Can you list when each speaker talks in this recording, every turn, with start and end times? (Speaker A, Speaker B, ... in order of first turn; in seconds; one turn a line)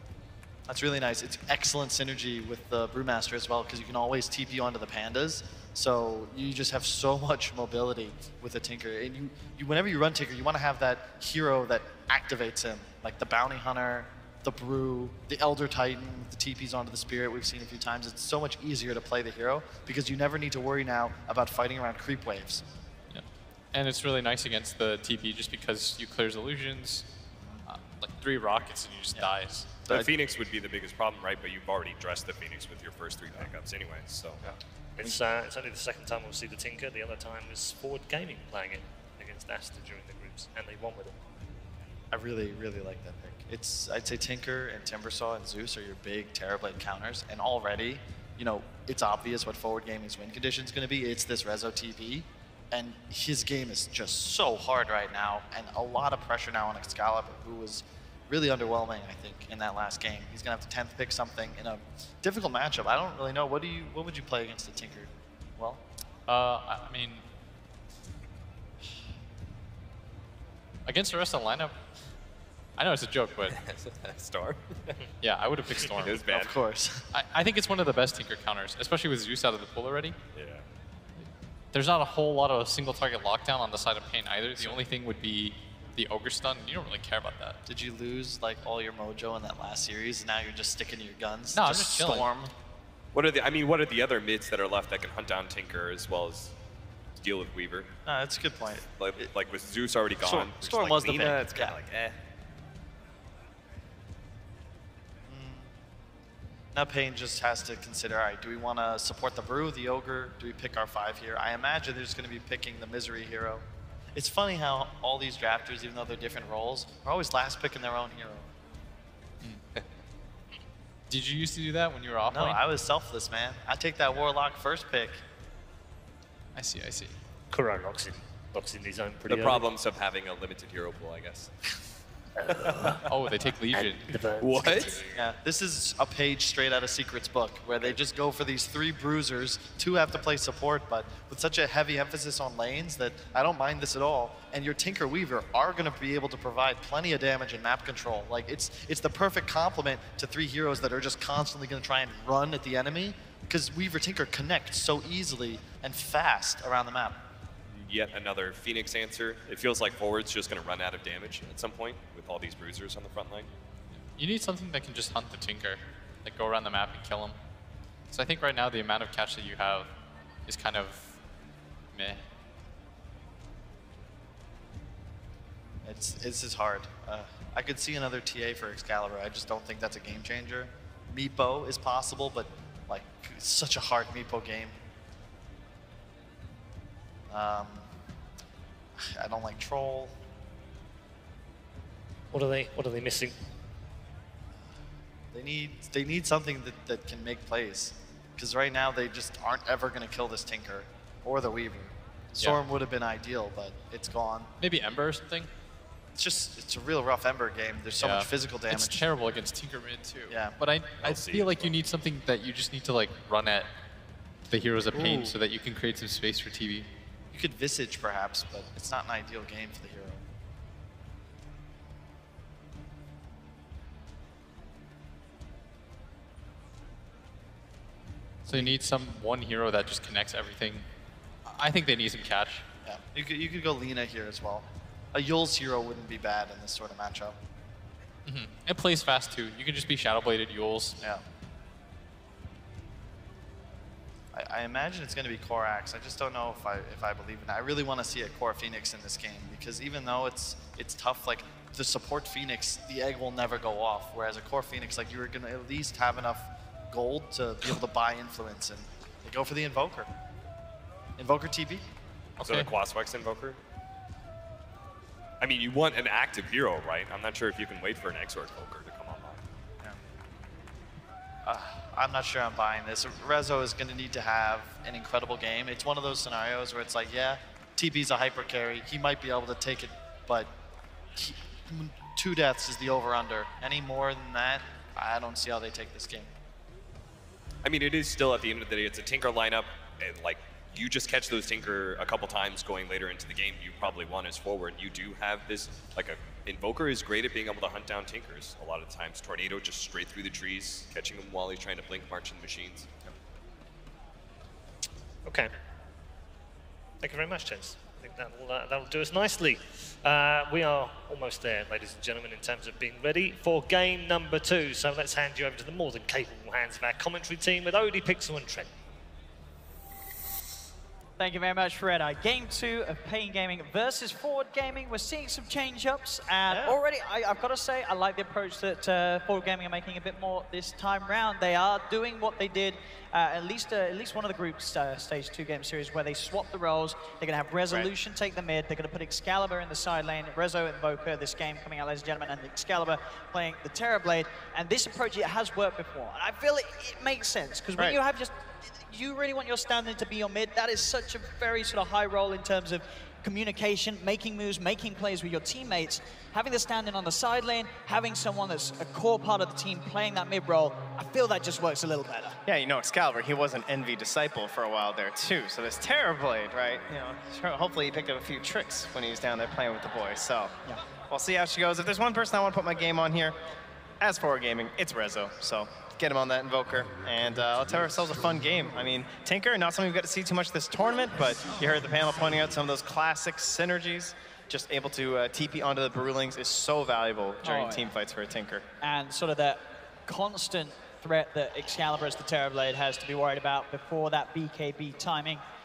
Speaker A: 0.7-22.6
Speaker B: 23.1-27.1
Speaker B: 27.7-29.8
Speaker C: 29.8-34.4
Speaker D: 35.0-41.1
Speaker A: 42.1-65.8
Speaker B: 66.3-67.2
Speaker B: 70.8-71.7
Speaker B: 72.8-73.6
Speaker C: 73.6-74.9
Speaker B: 75.2-76.3
Speaker C: 75.9-76.5
Speaker A: 76.2-77.0
Speaker B: 77.1-80.2
Speaker C: 80.3-80.6
Speaker B: 81.7-87.6
Speaker A: 87.7-92.5
Speaker B: 91.5-92.3
Speaker C: 93.1-96.5
Speaker C: 97.2-97.9
Speaker A: 98.0-99.2
Speaker C: 98.9-102.1
Speaker A: 100.2-101.7
Speaker A: 105.3-105.7
Speaker A: 106.7-118.5
Speaker B: 121.1-122.6
Speaker A: 122.3-125.2
Speaker B: 126.5-127.2
Speaker D: 127.5-129.6
Speaker C: 129.3-131.5
Speaker D: 132.5-133.0
Speaker B: 133.1-134.0
Speaker D: 134.1-134.8
Speaker C: 134.4-135.0
Speaker A: 135.1-157.2
Speaker C: 157.7-163.5
Speaker B: 164.2-167.3
Speaker B: 168.1-169.9
Speaker B: 170.5-171.2
Speaker B: 171.9-172.2
Speaker A: 175.8-184.8
Speaker A: 187.3-187.9
Speaker A: 188.9-190.1
Speaker D: 192.3-193.3
Speaker A: 195.3-204.5
Speaker B: 204.6-205.5
Speaker A: 206.1-209.1
Speaker B: 208.0-213.7
Speaker A: 210.3-210.6
Speaker C: 211.0-211.7
Speaker B: 214.5-216.9
Speaker A: 214.9-215.3
Speaker A: 217.3-220.2
Speaker B: 228.4-230.8
Speaker B: 231.5-232.6
Speaker A: 232.8-237.4
Speaker B: 238.2-241.0
Speaker A: 244.3-260.1
Speaker A: 261.2-261.9
Speaker B: 262.4-262.7
Speaker C: 262.4-263.6
Speaker C: 265.4-269.4
Speaker A: 271.4-280.5
Speaker A: 281.1-286.3
Speaker C: 287.6-303.1
Speaker D: 305.2-305.5
Speaker D: 307.0-318.7
Speaker E: 321.2-362.4
Speaker F: 326.5-326.8
Speaker F: 362.4-370.6
Speaker F: 371.1-373.4
Speaker F: 374.0-388.6
Speaker E: 387.4-387.9
Speaker E: 388.8-395.4